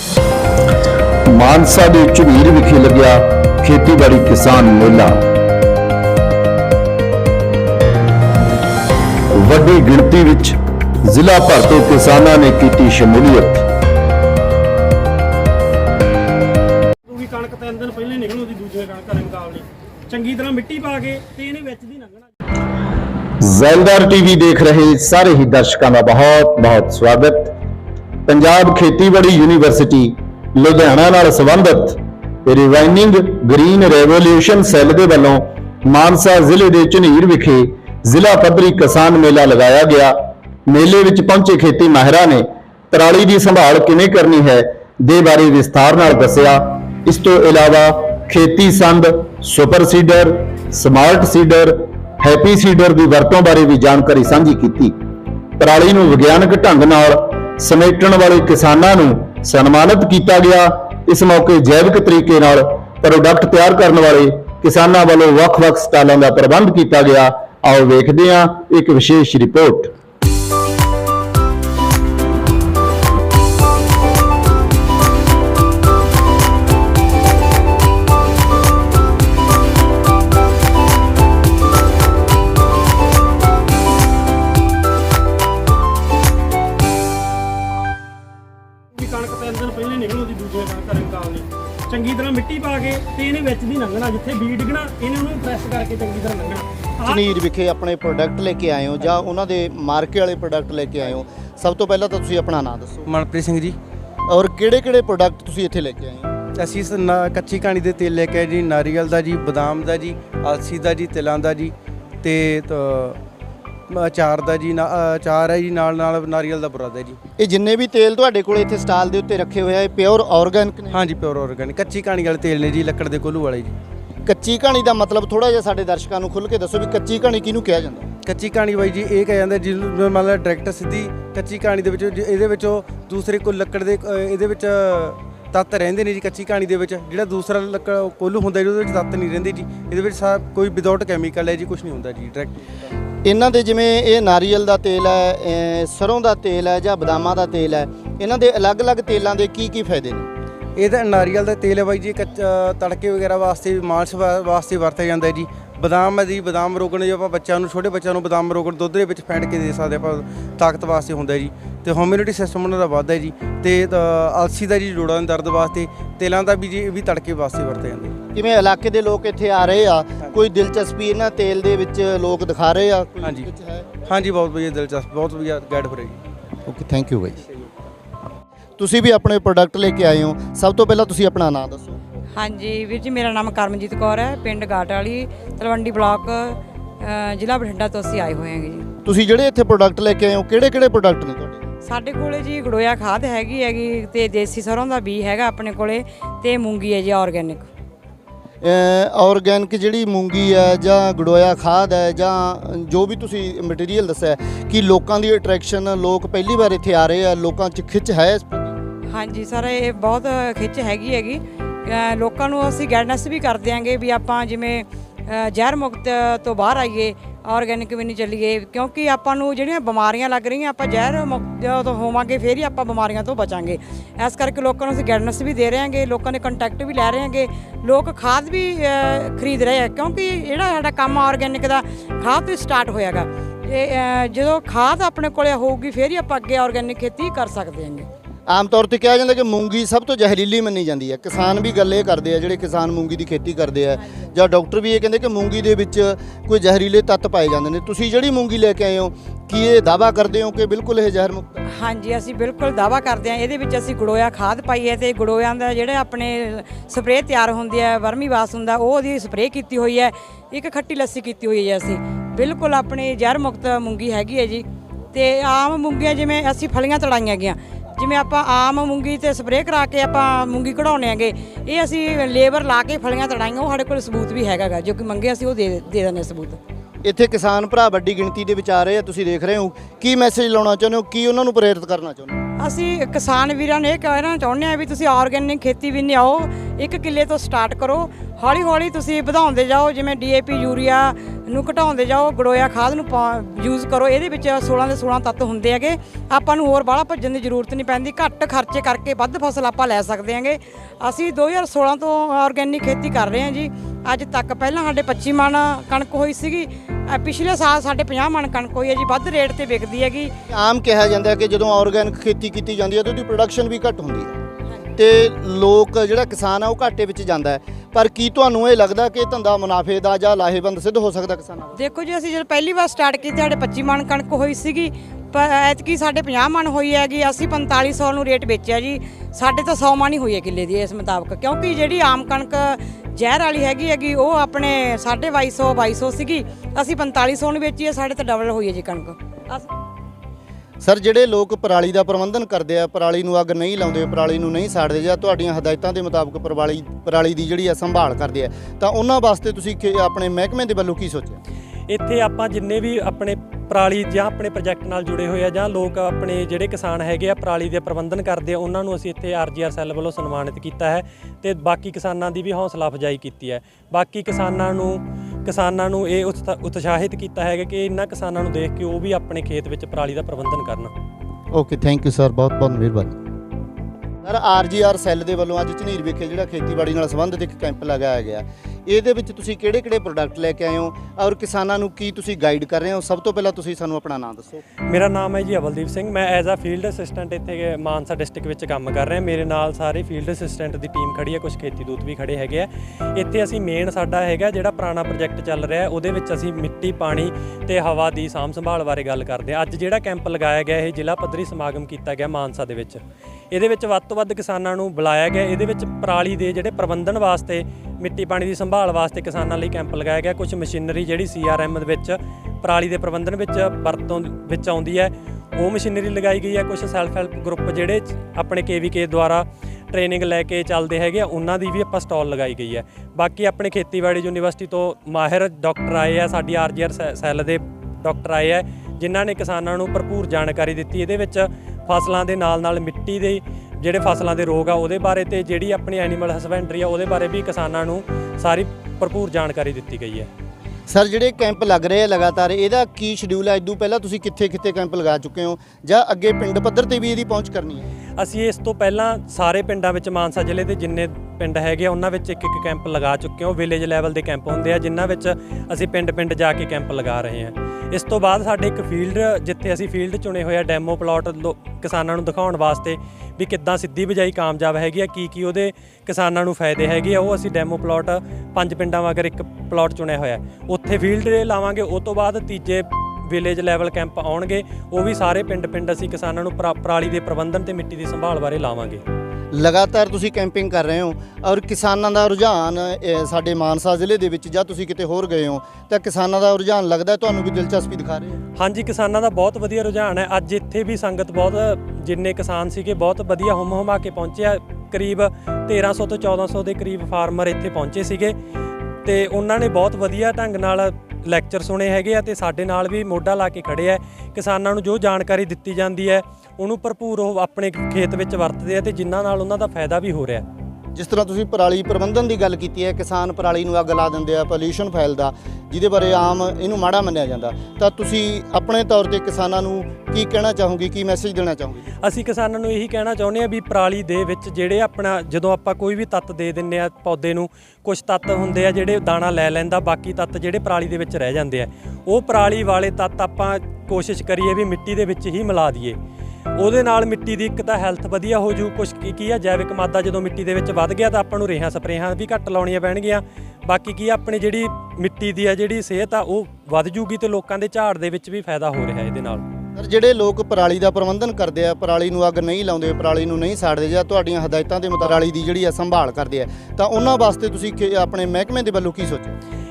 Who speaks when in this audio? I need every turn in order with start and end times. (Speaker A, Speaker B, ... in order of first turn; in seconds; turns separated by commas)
Speaker A: 1.3-5.2, Speaker A: 9.3-13.7, Speaker B: 17.1-22.2, Speaker A: 23.4-27.5, Speaker A: 28.3-40.1, Speaker A: 40.7-54.9, Speaker A: 55.6-69.9, Speaker B: 88.9-97.1, Speaker C: 97.0-103.1, Speaker D: 103.1-103.8, Speaker C: 104.3-106.3, Speaker D: 106.6-113.2, Speaker D: 113.9-117.2, Speaker C: 117.4-121.0, Speaker D: 120.9-123.8, Speaker C: 124.2-128.1, Speaker D: 128.2-142.8, Speaker C: 143.2-150.3, Speaker D: 150.8-168.1, Speaker C: 168.3-173.9, Speaker D: 173.2-173.5, Speaker D: 174.0-176.2, Speaker C: 176.7-177.4, Speaker C: 178.8-182.0, Speaker E: 182.3-188.9, Speaker C: 189.0-191.6, Speaker E: 191.8-197.7, Speaker C: 198.6-208.7, Speaker E: 209.1-238.1, Speaker C: 238.5-251.6, Speaker E: 251.7-276.6, Speaker C: 277.0-282.4, Speaker E: 282.6-310.3, Speaker C: 310.5-314.3, Speaker C: 314.9-321.8, Speaker E: 321.7-339.7, Speaker C: 340.8-351.4, Speaker F: 351.9-370.9, Speaker C: 371.5-373.2, Speaker C: 374.2-384.6, Speaker F: 384.9-440.3, Speaker C: 440.9-447.9, Speaker F: 448.2-479.0, Speaker C: 479.5-488.4, Speaker F: 488.6-498.4, Speaker F: 499.0-510.4, Speaker C: 510.9-521.9, Speaker F: 522.0-536.0, Speaker F: 536.5-549.4, Speaker C: 549.8-559.4